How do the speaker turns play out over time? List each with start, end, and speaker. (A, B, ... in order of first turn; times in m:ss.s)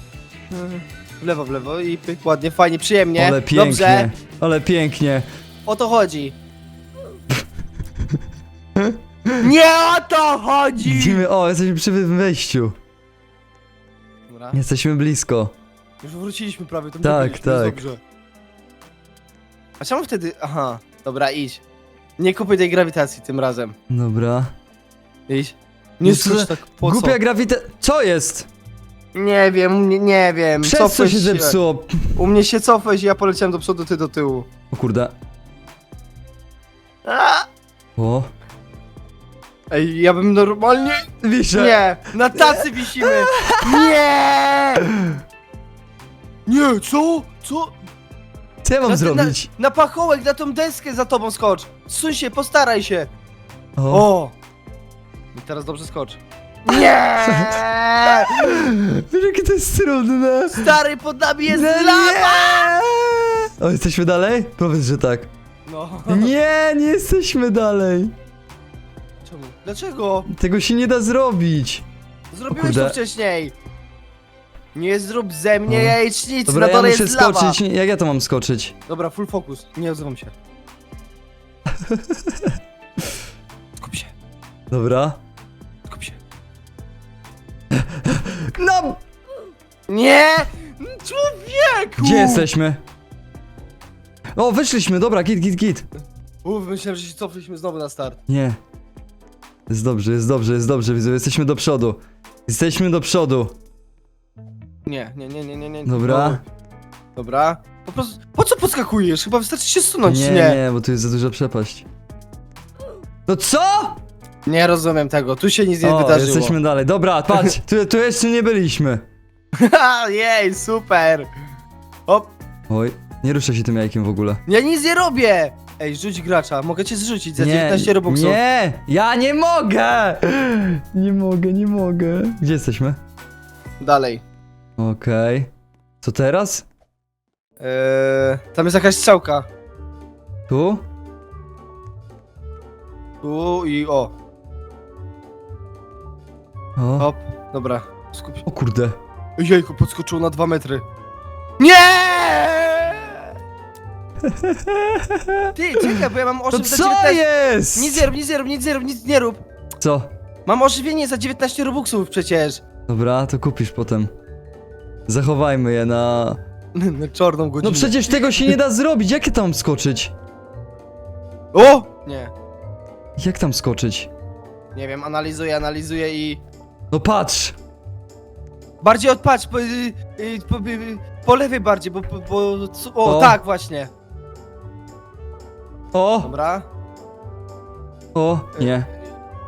0:00.5-0:04.1 A
0:03.2-0:05.3 B
0:05.6-0:06.4 A
0:08.8-0:09.5 B
0:09.4-0:11.2 A
0:10.8-0:12.8 B
0:14.3-0:14.6 A
0:14.5-0:15.5 B
0:16.0-0:18.0 A
0:17.0-0:17.8 B
0:19.8-0:21.6 A
0:22.2-0:23.7 A
0:23.9-0:24.5 B
0:25.3-0:27.2 A
0:26.0-0:28.5 B
0:29.1-0:31.6 A
0:30.6-0:32.2 B
0:32.1-0:34.5 A
0:34.7-0:35.1 B
0:37.0-0:37.5 A
0:38.0-0:38.3 B
0:39.7-0:44.9 A
0:41.2-0:44.0 B
0:44.9-0:45.2 B
0:46.5-0:47.7 A
0:48.6-0:49.5 B
0:48.8-0:53.1 A
0:53.8-0:54.1 B
0:53.9-0:54.3 A
0:55.3-0:58.6 A
0:57.3-1:00.7 B
1:00.5-1:02.7 A
1:01.5-1:05.3 B
1:05.7-1:06.3 A
1:06.1-1:08.1 B
1:09.2-1:10.3 A
1:10.3-1:11.8 B
1:12.3-1:13.5 A
1:12.5-1:13.0 B
1:14.7-1:17.6 A
1:15.7-1:18.7 B
1:18.9-1:20.3 A
1:21.7-1:22.6 B
1:23.8-1:24.1 A
1:24.7-1:25.2 B
1:25.9-1:26.2 A
1:27.7-1:29.0 B
1:29.9-1:32.5 A
1:32.0-1:32.8 B
1:34.3-1:35.8 B
1:36.4-1:38.2 A
1:38.3-1:38.6 B
1:39.7-1:43.6 B
1:44.8-1:46.4 A
1:45.8-1:46.4 B
1:47.2-1:50.6 A
1:50.0-1:51.8 B
1:53.2-1:54.0 B
1:54.4-1:56.6 A
1:55.8-1:59.0 B
1:59.5-2:01.3 A
2:02.1-2:02.3 A
2:02.7-2:04.4 B
2:04.5-2:08.4 A
2:07.4-2:13.0 B
2:13.8-2:14.2 A
2:14.8-2:15.5 B
2:16.0-2:16.6 B
2:17.6-2:19.5 A
2:20.5-2:20.8 B
2:23.2-2:24.1 A
2:26.8-2:27.1 B
2:27.0-2:28.4 A
2:28.4-2:29.0 B
2:29.4-2:30.8 A
2:31.6-2:33.2 A
2:34.2-2:36.0 B
2:35.5-2:37.2 A
2:36.5-2:38.1 B
2:37.7-2:39.4 A
2:39.8-2:40.1 B
2:40.4-2:42.6 A
2:42.9-2:44.1 B
2:45.1-2:46.4 B
2:46.7-2:48.6 A
2:47.6-2:50.1 B
2:51.5-2:52.3 A
2:53.2-2:54.1 B
2:54.7-2:56.4 A
2:56.9-2:57.6 B
2:58.8-3:03.9 A
3:03.0-3:03.4 B
3:05.9-3:06.3 B
3:06.2-3:06.7 A
3:08.1-3:08.9 B